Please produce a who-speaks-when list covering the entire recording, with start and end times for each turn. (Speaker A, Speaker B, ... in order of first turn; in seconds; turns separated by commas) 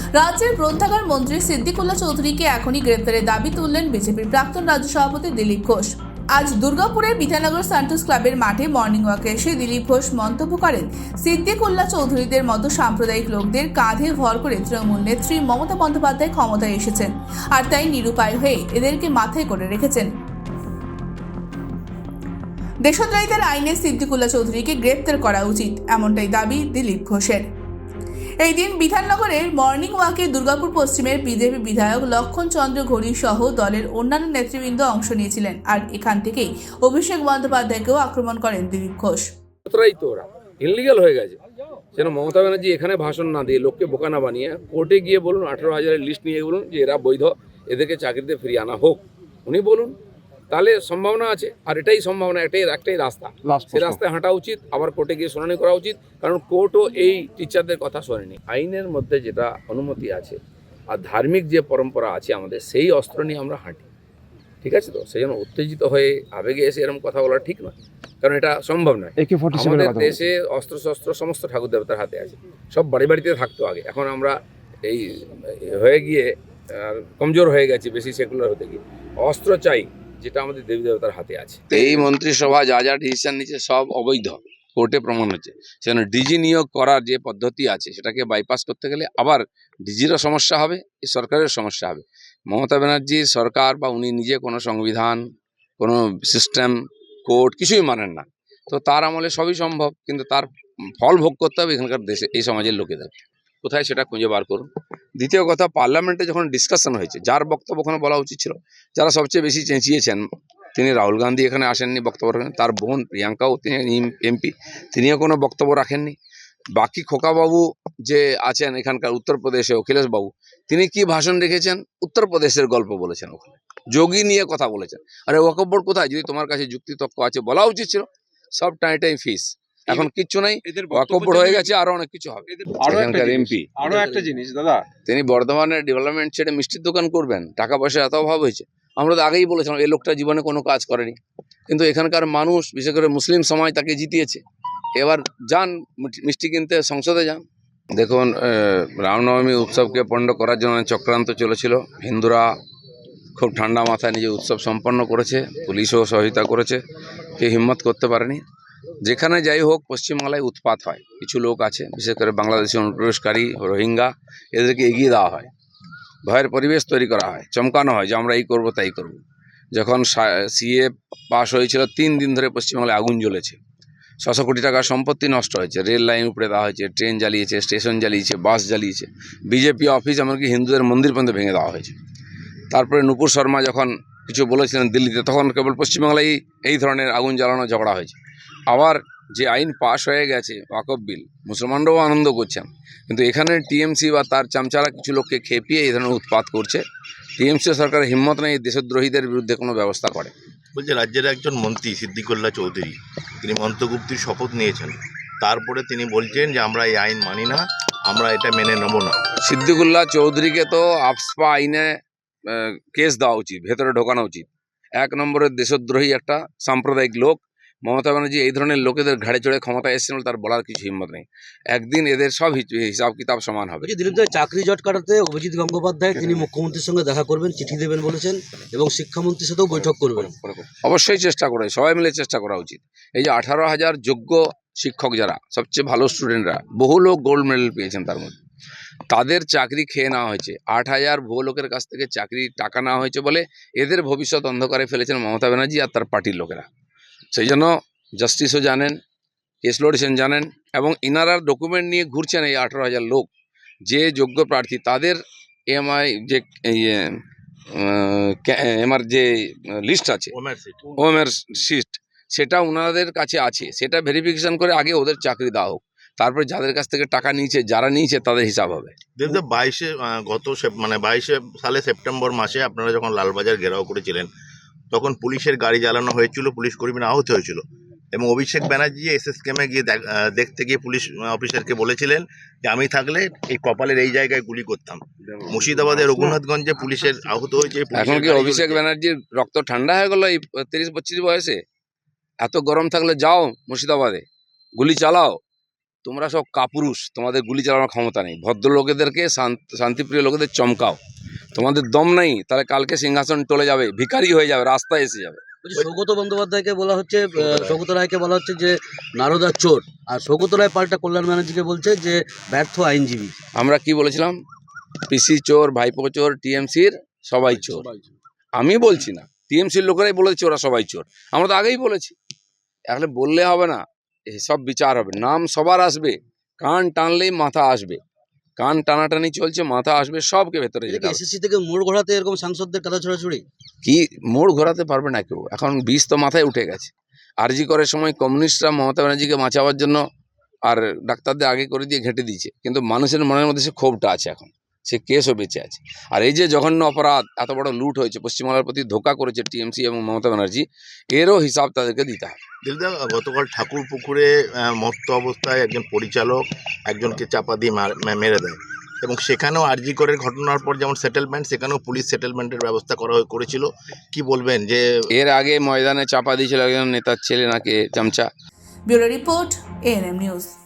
Speaker A: 0.1-20.1, Speaker A: 22.8-27.4, Speaker A: 28.4-39.3, Speaker B: 39.6-41.4, Speaker B: 41.9-49.9, Speaker B: 50.5-60.4, Speaker C: 53.5-54.0, Speaker B: 60.9-63.9, Speaker B: 64.6-95.2, Speaker C: 69.2-70.3, Speaker C: 81.7-82.1, Speaker B: 95.8-116.2, Speaker B: 116.8-128.1, Speaker B: 128.6-133.8, Speaker C: 130.7-131.7, Speaker C: 132.5-134.9, Speaker D: 133.8-134.3, Speaker B: 135.0-141.2, Speaker B: 141.7-144.4, Speaker B: 145.0-147.4, Speaker B: 147.9-152.5, Speaker B: 153.3-156.8, Speaker B: 157.4-158.4, Speaker B: 159.0-165.5, Speaker B: 166.2-169.2, Speaker B: 169.7-173.6, Speaker B: 174.2-181.9, Speaker B: 182.7-188.2, Speaker B: 188.7-196.8, Speaker B: 197.4-200.3, Speaker E: 200.8-209.2, Speaker B: 209.4-211.9, Speaker B: 212.5-224.0, Speaker D: 223.8-230.3, Speaker B: 229.7-238.4, Speaker B: 239.1-246.7, Speaker B: 247.3-249.0, Speaker B: 249.6-253.3, Speaker B: 253.8-257.2, Speaker B: 257.7-260.3, Speaker E: 260.3-260.9, Speaker B: 261.0-269.0, Speaker E: 269.1-274.3, Speaker E: 274.9-288.8, Speaker B: 287.9-291.6, Speaker B: 292.4-294.2, Speaker B: 294.8-295.4, Speaker B: 296.0-301.0, Speaker B: 301.5-305.4, Speaker D: 305.6-313.4, Speaker E: 307.4-307.8, Speaker B: 313.6-314.4, Speaker B: 315.1-317.9, Speaker D: 317.5-318.1, Speaker B: 318.6-322.1, Speaker B: 322.9-328.0, Speaker B: 328.6-331.2, Speaker D: 330.9-333.4, Speaker B: 333.8-340.0, Speaker B: 340.7-352.4, Speaker E: 352.6-364.8, Speaker B: 365.1-368.3, Speaker A: 368.9-370.5